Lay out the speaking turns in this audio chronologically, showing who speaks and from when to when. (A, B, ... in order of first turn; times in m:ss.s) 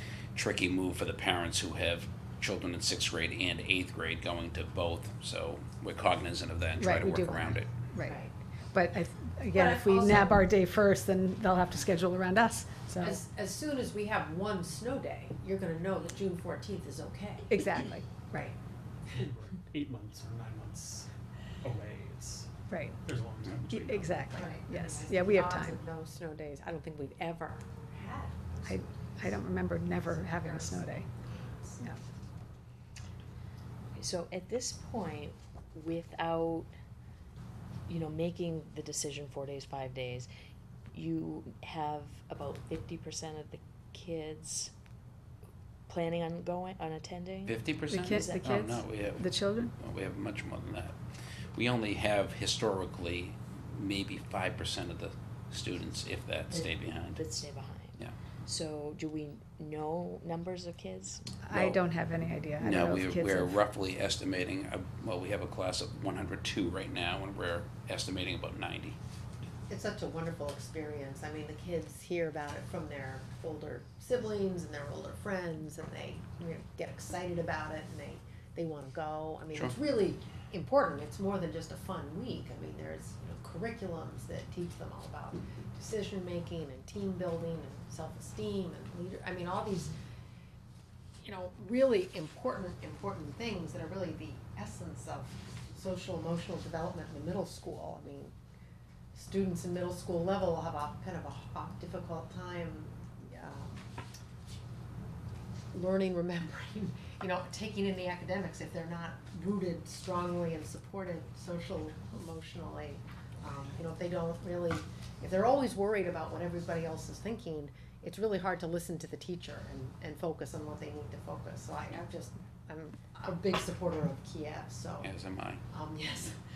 0:00.3-0:07.7 A
0:06.8-0:13.2 B
0:08.0-0:08.3 C
0:09.5-0:10.4 C
0:13.0-0:17.8 C
0:17.5-0:18.5 B
0:19.1-0:21.1 D
0:21.6-0:22.5 D
0:22.7-0:23.0 B
0:23.0-0:24.3 D
0:23.7-0:25.8 B
0:24.3-0:31.8 C
0:28.6-0:31.0 B
0:33.9-0:36.7 E
0:37.9-0:40.3 E
0:40.9-0:44.7 E
0:45.9-0:48.5 E
0:47.4-0:57.2 A
0:47.9-0:49.7 B
0:57.1-1:01.2 E
1:01.4-1:03.6 B
1:01.5-1:01.8 A
1:02.6-1:09.0 A
1:09.7-1:29.9 C
1:31.2-1:38.3 C
1:39.1-1:43.8 C
1:45.7-2:05.1 C
2:05.0-2:05.6 A
2:05.7-2:06.4 C